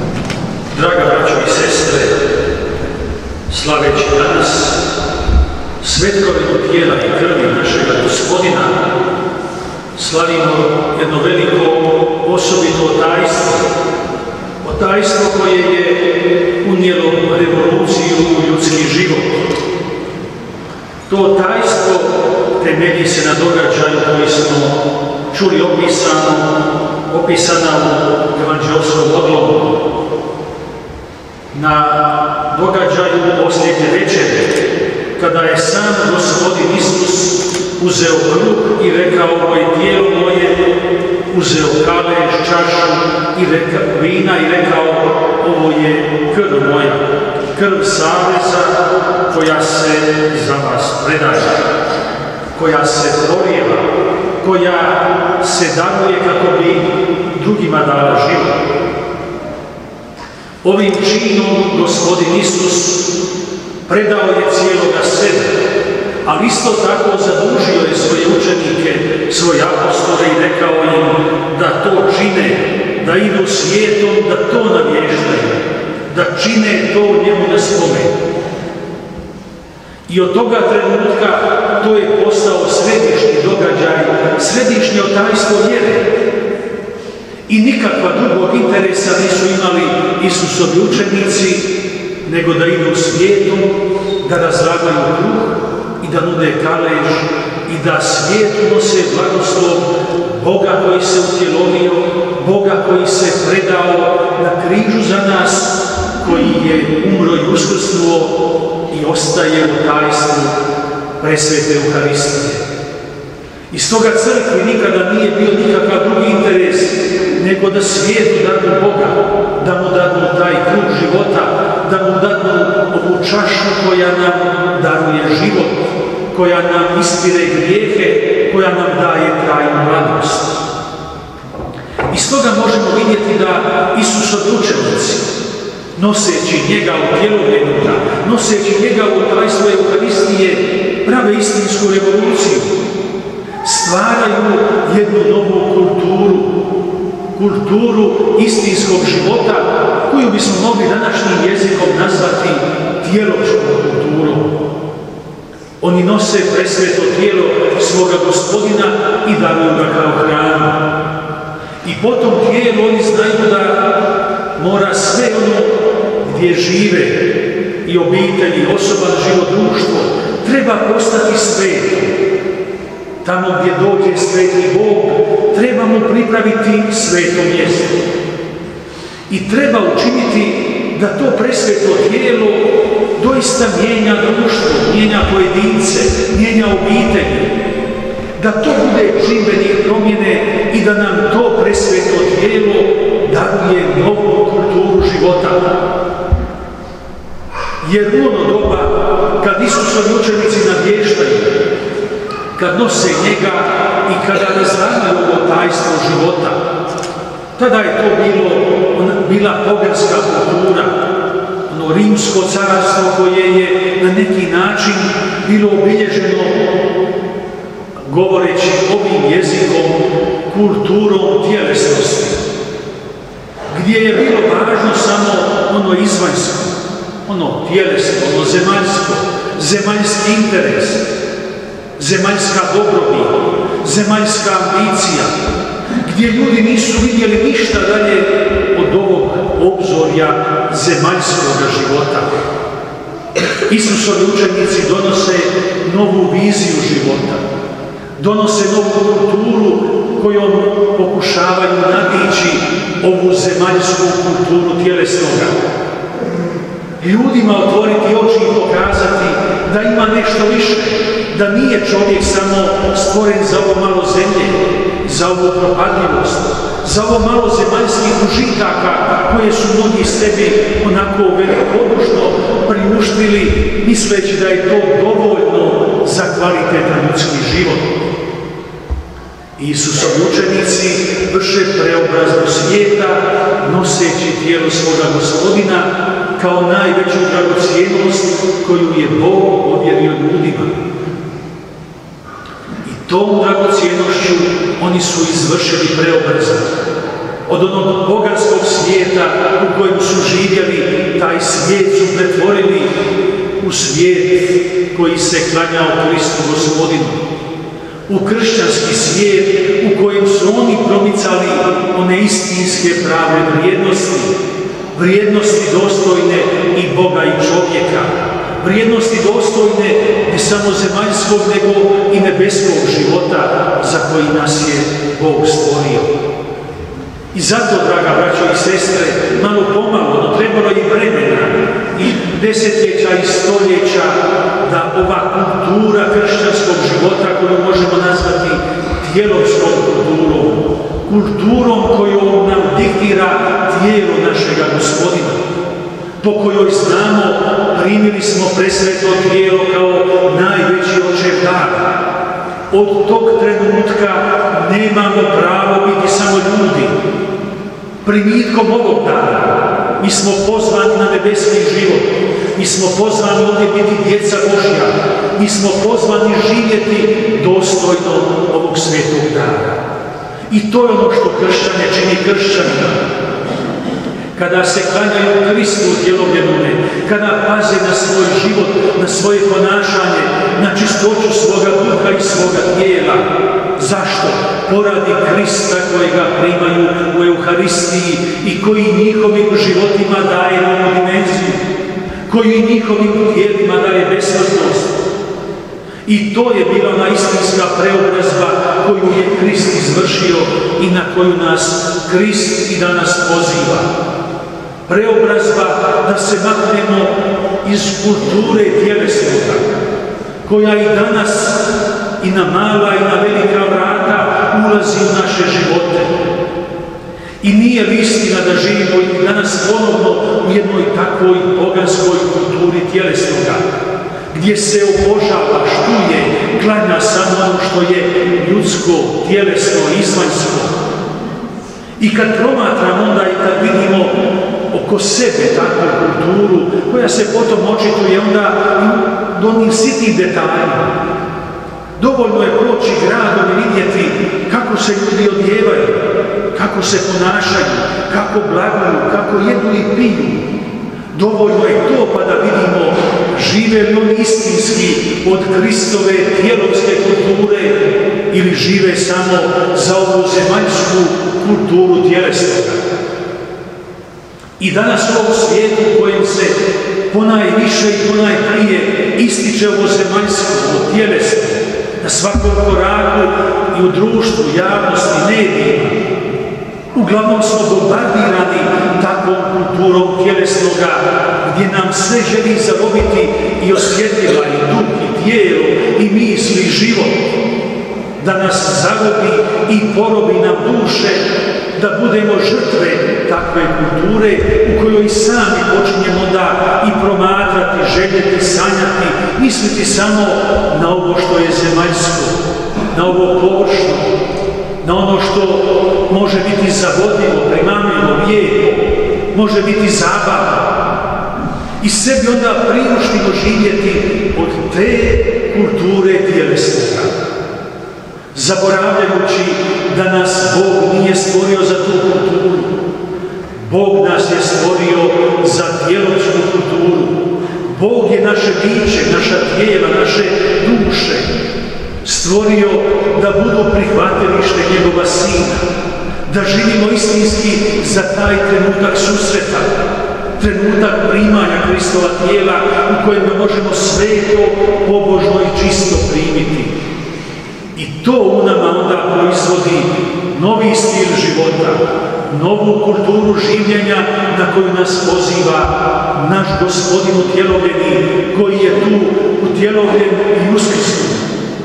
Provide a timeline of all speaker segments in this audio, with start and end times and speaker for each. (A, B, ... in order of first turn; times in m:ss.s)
0:00.7-0:02.2 A
0:03.5-0:04.9 A
0:05.8-0:08.9 A
0:09.9-0:13.7 A
0:14.6-0:19.3 A
0:21.1-0:24.8 A
0:25.3-0:29.8 A
0:31.5-0:34.6 A
0:35.2-0:40.6 A
0:41.3-0:51.6 A
0:52.5-0:53.9 A
0:54.4-0:58.6 A
1:00.6-1:03.2 A
1:03.9-1:05.6 A
1:06.2-1:18.2 A
1:20.1-1:26.1 A
1:27.5-1:50.6 A
1:51.2-1:52.6 A
1:53.7-2:10.7 A
2:12.1-2:15.3 A
2:16.0-2:22.7 A
2:23.6-2:26.6 A
2:27.3-2:34.6 A
2:35.8-2:40.8 A
2:41.8-2:43.9 A
2:44.6-2:52.2 A
2:53.2-2:58.0 A
2:59.3-3:07.6 A
3:08.4-3:15.8 A
3:17.8-3:21.6 A
3:22.6-3:26.6 A
3:27.6-3:31.0 A
3:31.7-3:36.6 A
3:38.0-3:42.4 A
3:43.7-3:51.1 A
3:52.0-3:55.3 A
3:56.0-4:02.3 A
4:03.6-4:07.4 A
4:08.2-4:15.6 A
4:17.0-4:37.9 A
4:39.6-4:50.8 A
4:52.8-4:56.8 A
4:57.5-5:02.9 A
5:03.6-5:07.2 A
5:08.1-5:14.3 A
5:14.9-5:26.1 A
5:27.3-5:45.4 A
5:46.2-5:51.9 A
5:52.7-5:56.9 A
5:58.0-6:09.8 A
6:10.5-6:13.0 A
6:14.3-6:31.6 A
6:32.3-6:35.0 A
6:36.0-6:43.9 A
6:44.9-6:49.7 A
6:50.4-6:56.2 A
6:57.4-7:03.6 A
7:04.3-7:10.7 A
7:12.0-7:14.2 A
7:14.7-7:20.9 A
7:22.0-7:30.4 A
7:31.1-7:42.8 A
7:44.6-7:56.0 A
7:56.9-8:07.2 A
8:08.2-8:22.4 A
8:22.9-8:24.1 A
8:24.8-8:30.7 A
8:31.8-8:37.1 A
8:38.3-8:42.7 A
8:43.6-8:51.3 A
8:52.0-8:55.6 A
8:56.2-8:59.8 A
9:00.4-9:06.7 A
9:07.7-9:21.3 A